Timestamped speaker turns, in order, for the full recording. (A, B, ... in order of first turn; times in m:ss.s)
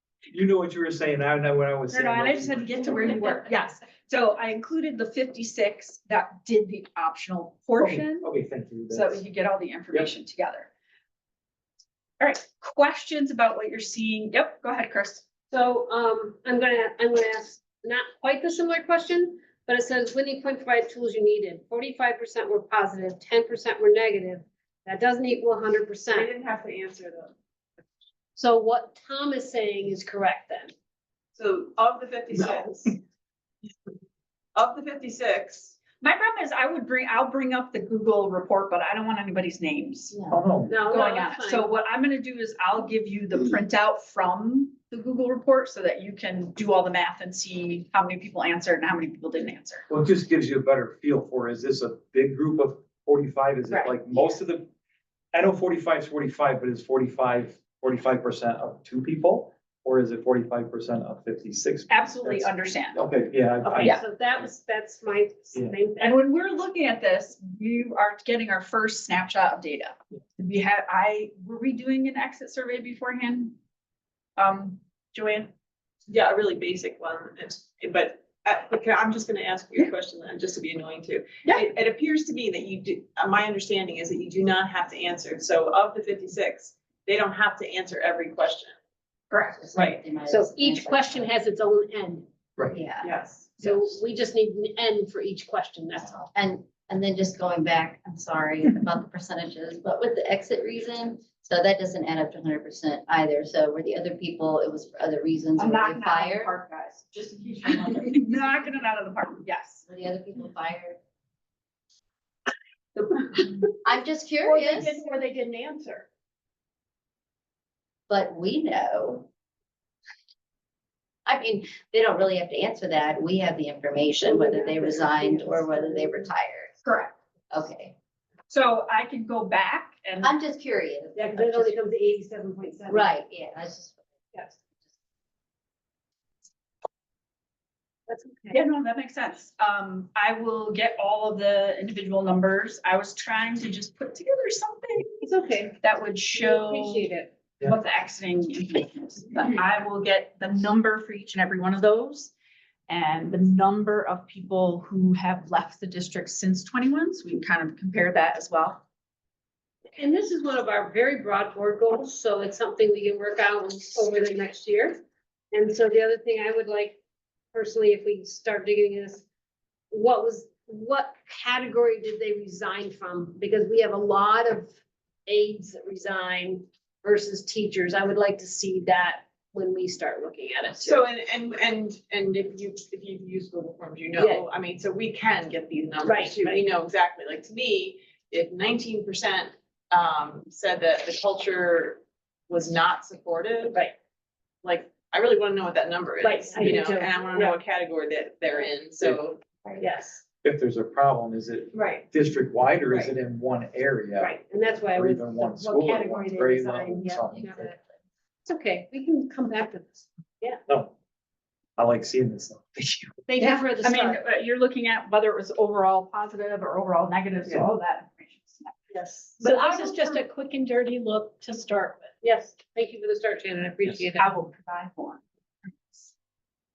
0:00.3-0:03.2 A
0:01.9-0:08.3 B
0:07.8-0:09.2 A
0:08.9-0:10.7 B
0:12.2-0:15.2 B
0:15.5-0:26.3 C
0:26.1-0:27.3 D
0:28.4-0:30.7 C
0:31.4-0:33.0 D
0:34.6-0:35.8 D
0:36.0-0:40.2 B
0:40.1-0:40.4 E
0:40.3-0:40.8 A
0:40.7-0:41.7 C
0:40.9-0:49.9 B
0:49.9-0:54.7 A
0:53.7-0:54.4 B
0:55.3-1:04.0 A
1:01.9-1:03.0 B
1:03.6-1:06.2 C
1:06.0-1:13.6 B
1:14.4-1:15.5 B
1:16.1-1:28.7 D
1:29.3-1:29.6 B
1:29.6-1:31.3 E
1:29.7-1:30.0 D
1:30.2-1:32.3 C
1:32.7-1:33.1 E
1:33.0-1:33.7 D
1:33.6-1:36.3 C
1:36.4-1:46.5 E
1:45.6-1:49.8 B
1:49.9-1:51.0 E
1:53.8-1:55.0 E
1:54.5-1:55.9 B
1:58.1-1:59.3 E
2:01.3-2:06.8 E
2:04.2-2:06.3 C
2:06.8-2:07.2 B
2:07.5-2:08.0 E
2:08.5-2:10.4 B
2:10.2-2:11.8 E
2:11.2-2:13.2 C
2:12.9-2:14.0 E
2:18.1-2:18.6 C
2:18.5-2:27.1 B
2:25.2-2:25.8 C
2:26.3-2:27.3 C
2:27.6-2:32.3 B
2:32.9-2:38.8 B
2:40.0-2:45.0 C
2:45.5-2:47.0 C
2:47.5-2:49.2 C
2:49.9-2:54.7 C
2:55.3-3:01.0 C
3:00.8-3:13.9 D
3:04.2-3:04.4 C
3:06.0-3:06.6 C
3:14.6-3:19.5 D
3:16.2-3:17.6 C
3:19.8-3:20.2 C
3:20.4-3:24.4 A
3:21.7-3:22.0 C
3:24.2-3:27.8 C
3:24.9-3:27.6 A
3:27.4-3:27.8 E
3:28.5-3:30.6 C
3:30.7-3:30.9 A
3:31.8-3:33.2 A
3:33.3-3:34.2 C
3:33.4-3:38.8 B
3:38.9-3:44.3 C
3:39.4-3:40.2 B
3:44.2-3:45.2 B